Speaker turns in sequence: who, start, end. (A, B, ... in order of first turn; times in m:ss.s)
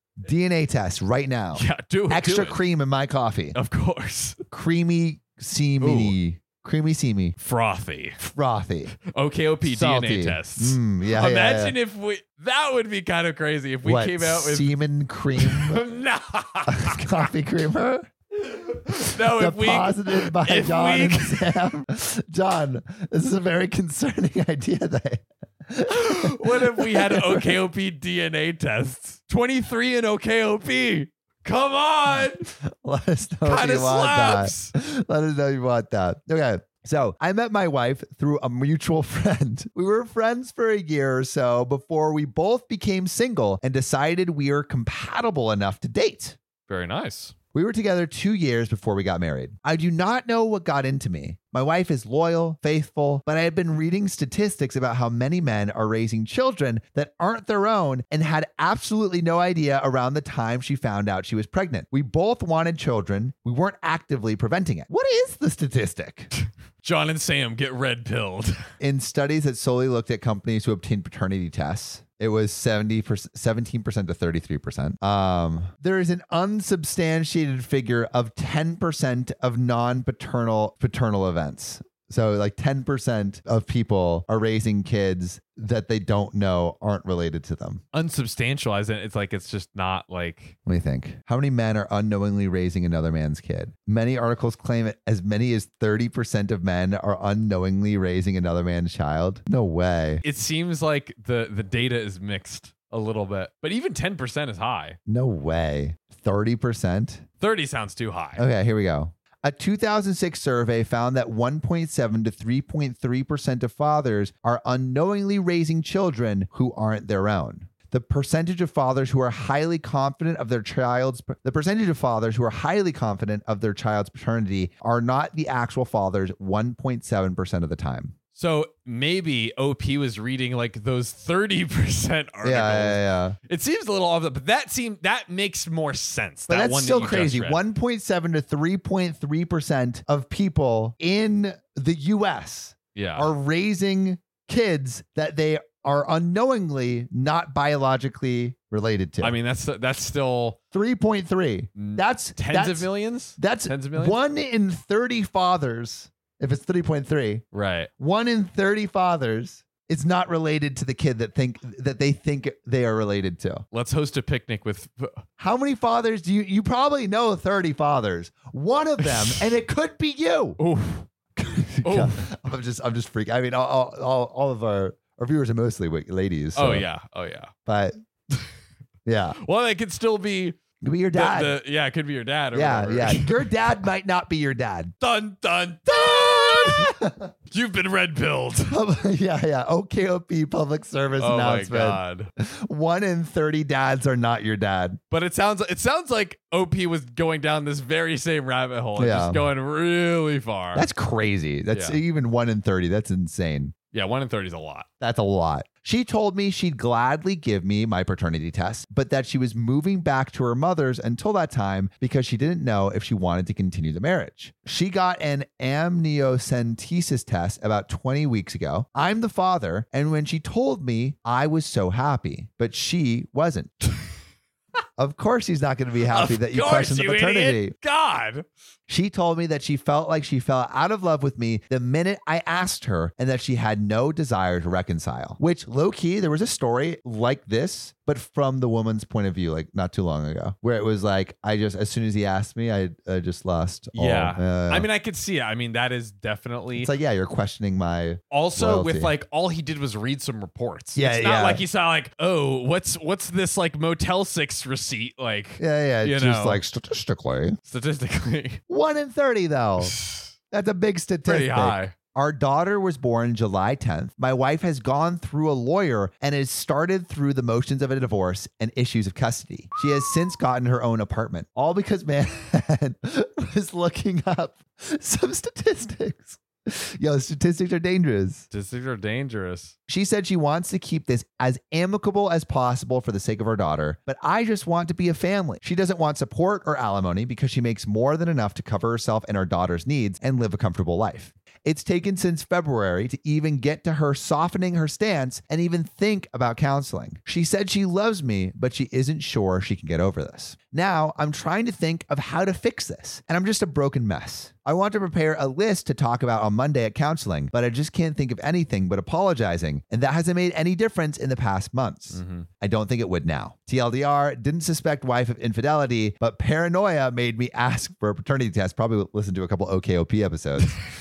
0:00.2-0:03.6 A
0:01.5-0:02.6 B
0:03.5-0:04.4 B
0:04.5-0:07.4 A
0:05.8-0:06.2 B
0:07.4-0:08.2 B
0:08.2-0:09.0 A
0:09.0-0:14.7 B
0:09.6-0:11.7 A
0:13.8-0:15.8 A
0:15.4-0:17.3 B
0:16.6-0:18.1 A
0:18.8-0:27.5 A
0:18.8-0:21.6 B
0:25.9-0:32.5 B
0:32.4-0:46.4 A
0:33.4-0:34.7 B
0:46.7-0:47.3 B
0:47.5-1:06.3 A
1:06.8-1:08.6 B
1:08.8-1:27.8 A
1:27.9-1:30.6 B
1:30.6-1:40.2 A
1:40.2-1:45.0 B
1:45.1-1:47.2 A
1:47.4-1:48.4 B
1:48.4-2:08.1 A
2:08.4-2:17.6 B
2:12.4-2:13.4 A
2:16.5-2:29.3 A
2:22.9-2:23.3 B
2:29.2-2:30.6 B
2:30.7-2:37.4 A
2:31.8-2:34.2 B
2:37.5-2:37.9 B
2:38.0-2:43.6 A
2:43.7-2:45.2 B
2:45.4-2:50.6 A
2:49.0-2:49.4 B
2:50.6-2:51.1 B
2:51.4-2:56.9 A
2:51.8-2:52.2 B
2:56.6-2:57.5 B
2:57.6-2:58.0 A
2:59.0-2:59.4 A
2:59.4-3:00.6 B
3:00.8-3:01.6 A
3:01.1-3:03.4 B
3:02.5-3:04.9 A
3:05.0-3:06.9 B
3:05.9-3:07.3 A
3:07.5-3:08.7 B
3:08.7-3:15.0 A
3:11.2-3:12.3 B
3:15.1-3:20.9 B
3:19.0-3:19.4 A
3:20.7-3:23.7 A
3:21.7-3:22.0 B
3:23.9-3:24.9 B
3:25.0-3:43.7 A
3:45.0-3:47.7 A
3:46.1-3:48.5 B
3:48.9-4:04.9 A
4:03.9-4:06.9 B
4:06.7-4:09.1 A
4:08.3-4:16.6 B
4:11.0-4:11.6 A
4:15.6-4:17.6 A
4:17.6-4:18.6 B
4:18.7-4:20.0 A
4:19.8-4:20.3 B
4:20.5-4:38.5 A
4:21.2-4:21.9 B
4:38.5-4:39.7 B
4:39.9-5:20.9 A
5:12.1-5:12.5 B